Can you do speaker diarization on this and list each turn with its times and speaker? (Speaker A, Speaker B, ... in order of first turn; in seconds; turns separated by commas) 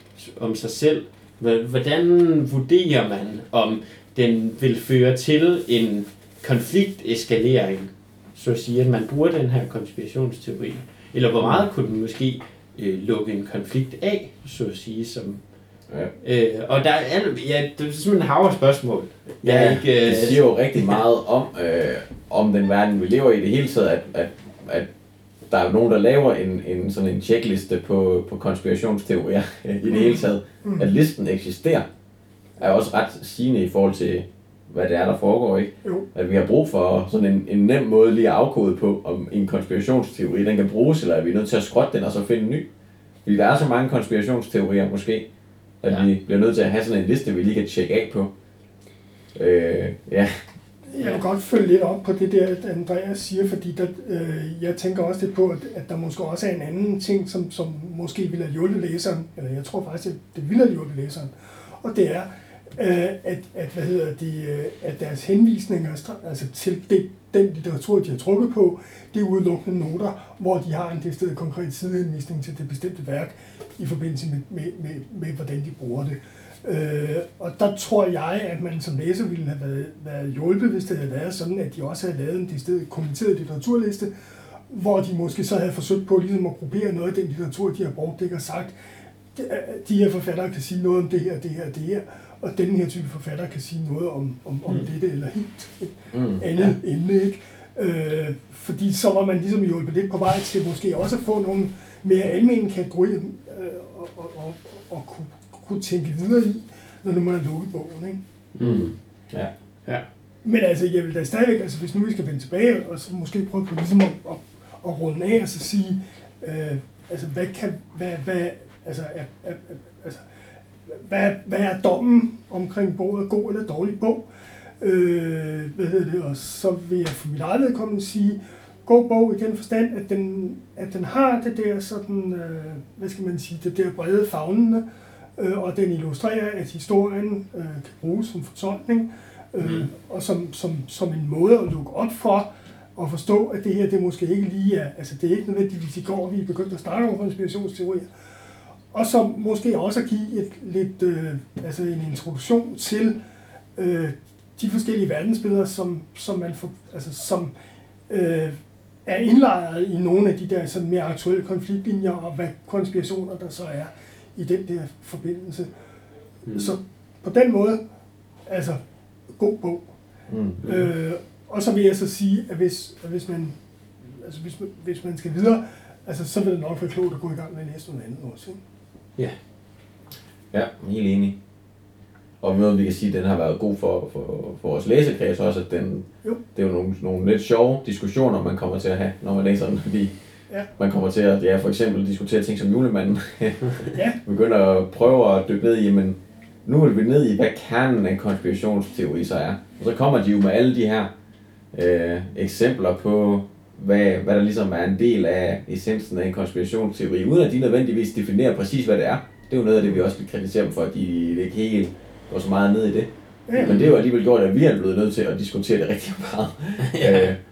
Speaker A: 0.1-15.4, Speaker A: 16.2-21.0, Speaker B: 19.4-24.9, Speaker B: 25.5-31.9, Speaker C: 29.9-30.9, Speaker B: 32.6-42.7, Speaker B: 43.2-45.3, Speaker B: 45.8-48.3, Speaker B: 49.3-50.3, Speaker C: 50.9-84.1, Speaker C: 84.7-88.7, Speaker C: 89.3-108.2, Speaker B: 96.1-96.5, Speaker A: 108.5-108.9, Speaker B: 108.6-109.5, Speaker C: 110.4-120.2, Speaker C: 120.9-124.2, Speaker C: 124.8-134.8, Speaker C: 135.4-148.1, Speaker A: 139.6-139.9, Speaker C: 148.9-153.2, Speaker C: 153.8-157.5, Speaker C: 158.1-165.7, Speaker A: 166.4-166.8, Speaker C: 166.5-167.8, Speaker C: 168.5-168.8, Speaker C: 169.3-169.9, Speaker B: 170.3-170.6, Speaker C: 170.6-178.6, Speaker A: 170.6-170.9, Speaker B: 180.5-181.3, Speaker B: 182.4-190.1, Speaker B: 190.8-201.1, Speaker B: 201.7-217.4, Speaker C: 213.5-213.8, Speaker A: 216.8-217.3